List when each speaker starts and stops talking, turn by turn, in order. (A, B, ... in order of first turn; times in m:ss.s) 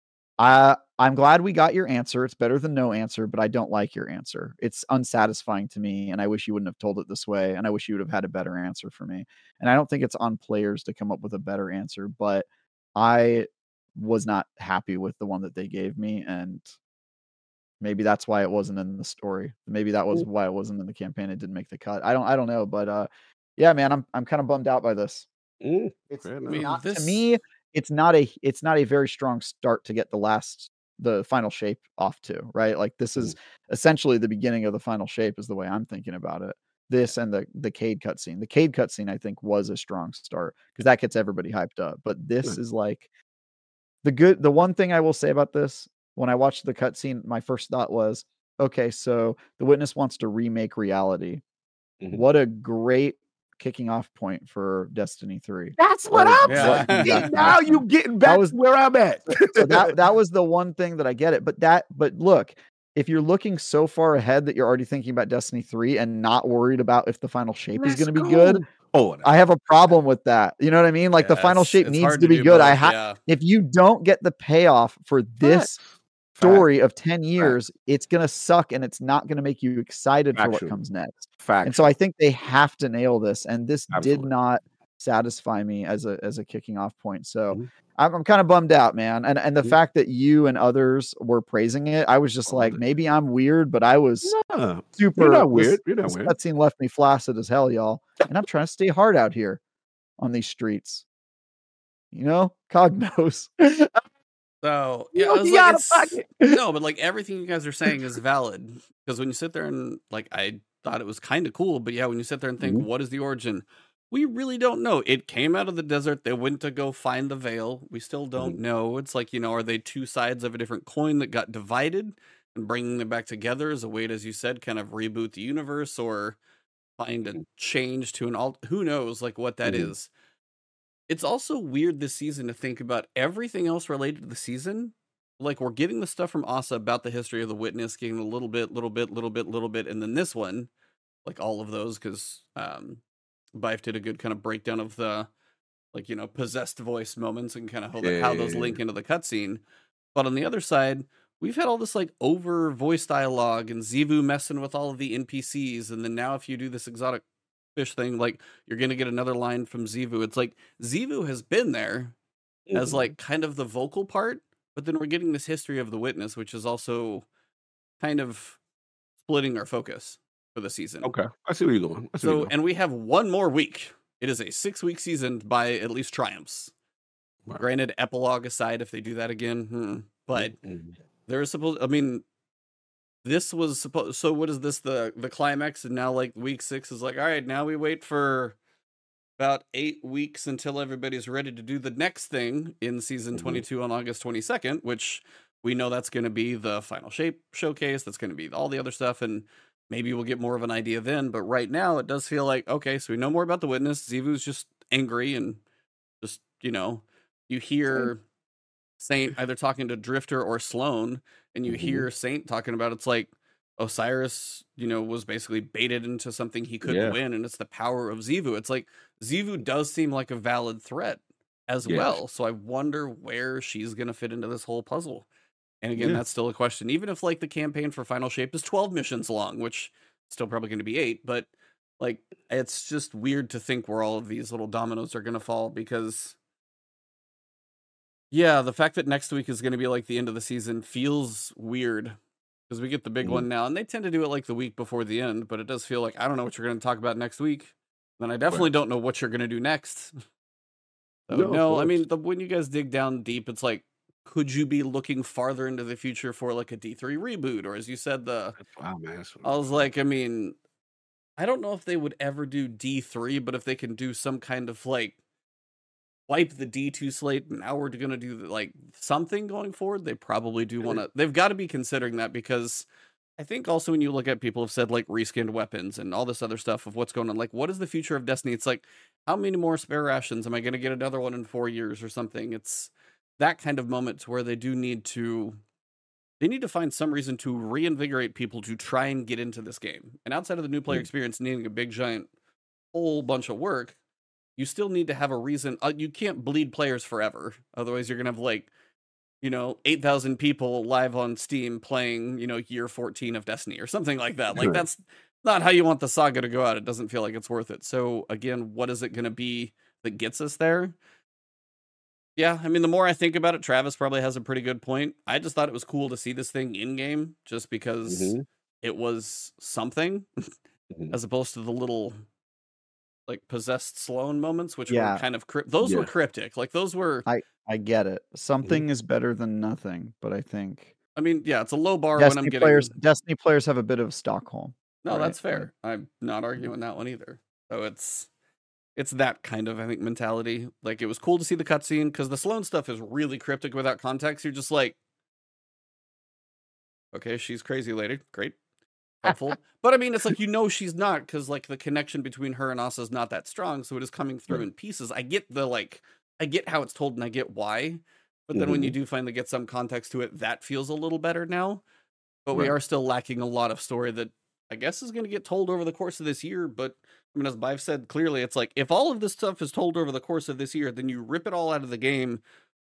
0:00.4-0:16.7 A
0:17.8-0:25.3 A
0:25.6-0:26.7 B
0:26.1-0:43.0 A
0:26.5-0:27.2 C
0:44.0-0:51.4 A
0:52.1-0:58.5 A
0:55.8-0:59.9 B
0:56.4-0:57.3 C
0:59.3-1:08.6 A
1:07.8-1:09.3 B
1:09.2-1:15.7 A
1:11.2-1:13.2 C
1:15.4-1:16.7 B
1:16.4-1:34.4 A
1:20.3-1:20.8 B
1:21.4-1:21.9 B
1:23.9-1:24.3 B
1:32.5-1:32.8 B
1:34.2-1:36.3 B
1:35.0-1:39.6 A
1:40.2-1:41.0 A
1:42.1-1:44.0 A
1:44.6-2:06.4 C
1:45.1-1:46.5 B
1:52.6-1:52.8 B
2:07.0-2:10.1 C
2:09.6-2:09.9 B
2:11.1-2:20.7 C
2:21.2-2:23.0 C
2:23.6-2:25.3 C
2:25.9-2:29.6 C
2:28.0-2:28.8 B
2:30.1-2:37.2 C
2:37.7-2:42.1 C
2:42.7-2:43.1 B
2:42.7-2:47.2 C
2:48.0-2:48.6 C
2:49.2-2:51.1 C
2:51.0-2:52.5 B
2:52.2-2:56.7 C
2:57.6-3:00.5 C
3:00.3-3:00.9 B
3:01.3-3:02.2 C
3:03.2-3:08.6 C
3:09.4-3:25.6 C
3:13.3-3:13.6 B
3:26.2-3:28.2 C
3:29.0-3:45.3 C
3:31.6-3:32.1 B
3:36.8-3:37.2 B
3:41.8-3:42.2 B
3:45.8-3:56.4 C
3:46.0-3:46.2 B
3:58.3-4:02.2 C
4:02.7-4:10.1 C
4:03.2-4:03.5 B
4:11.3-4:18.6 C
4:11.3-4:12.0 B
4:18.6-4:19.9 B
4:19.4-4:20.6 C
4:21.4-4:25.2 C
4:26.3-4:32.9 C
4:33.4-4:45.6 C
4:46.4-4:52.3 C
4:52.9-4:54.0 C
4:54.6-4:58.7 C
4:59.4-5:11.0 C
5:04.5-5:04.8 B
5:12.4-5:20.3 C
5:18.1-5:18.4 B
5:21.1-5:22.2 C
5:23.3-5:27.3 C
5:24.9-5:25.2 A
5:25.8-5:26.1 B
5:27.2-5:30.9 A
5:31.2-5:32.9 C
5:32.2-5:35.7 A
5:35.0-5:38.3 C
5:39.0-5:45.0 C
5:47.1-5:48.6 C
5:49.2-6:01.8 C
5:58.5-5:59.0 B
6:02.4-6:12.4 C